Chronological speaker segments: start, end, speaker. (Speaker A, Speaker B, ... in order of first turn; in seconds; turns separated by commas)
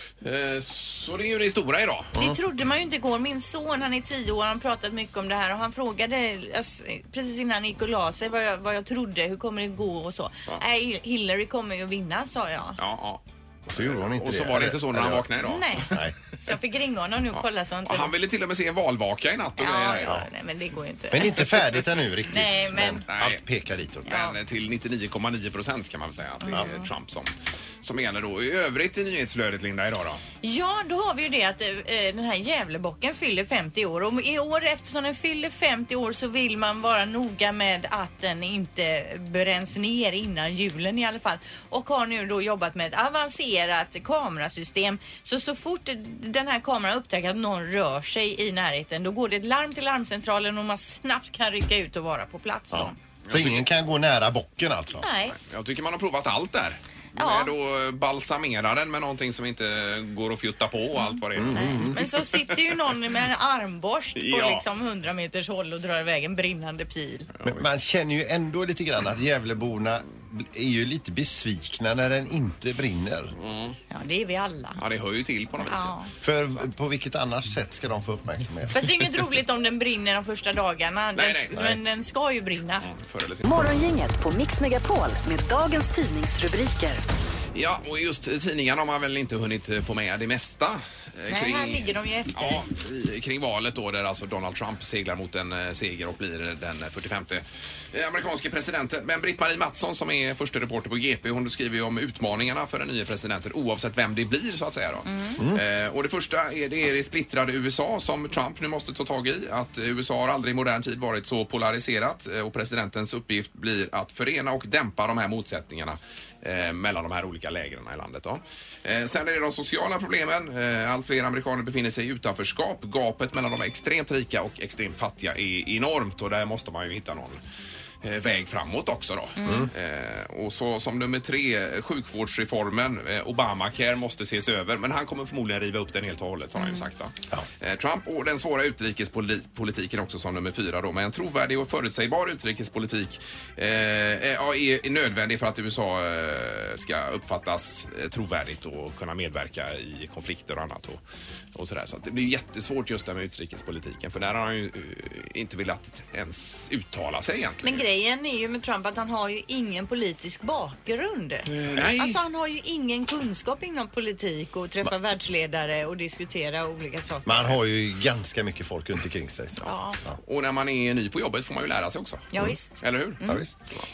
Speaker A: 0.2-2.1, Speaker B: 2.2-12.8, Speaker A: 12.8-16.0, Speaker C: 13.7-15.3, Speaker B: 15.4-18.1, Speaker C: 15.9-16.1, Speaker A: 17.3-20.2, Speaker B: 19.6-23.1, Speaker C: 21.1-24.2, Speaker A: 23.1-23.4, Speaker A: 24.1-30.2, Speaker B: 24.1-24.4, Speaker B: 26.4-26.9, Speaker B: 30.4-53.0, Speaker C: 52.7-55.1, Speaker A: 53.3-53.7, Speaker B: 55.0-55.4, Speaker A: 55.3-62.0, Speaker B: 57.2-57.5, Speaker B: 61.0-67.3, Speaker C: 61.4-62.1, Speaker A: 64.2-64.6, Speaker A: 67.4-67.7, Speaker C: 67.4-73.3, Speaker A: 73.4-73.8, Speaker B: 73.9-74.8, Speaker A: 74.8-76.0, Speaker B: 75.6-76.1, Speaker C: 76.2-78.9, Speaker B: 78.7-82.9, Speaker A: 81.2-81.6, Speaker C: 81.5-81.8, Speaker A: 82.8-83.7, Speaker D: 83.4-87.0, Speaker A: 87.5-127.4, Speaker B: 91.3-92.6, Speaker B: 105.1-105.4, Speaker C: 105.4-105.6, Speaker A: 128.0-151.0, Speaker B: 129.4-129.7, Speaker C: 129.4-129.7, Speaker B: 136.6-136.8, Speaker A: 151.6-157.8, Speaker B: 157.6-167.6, Speaker A: 161.5-162.2, Speaker C: 167.3-170.2, Speaker B: 169.6-170.0, Speaker A: 170.2-172.3, Speaker B: 172.3-173.4, Speaker A: 172.8-173.2, Speaker C: 173.2-173.5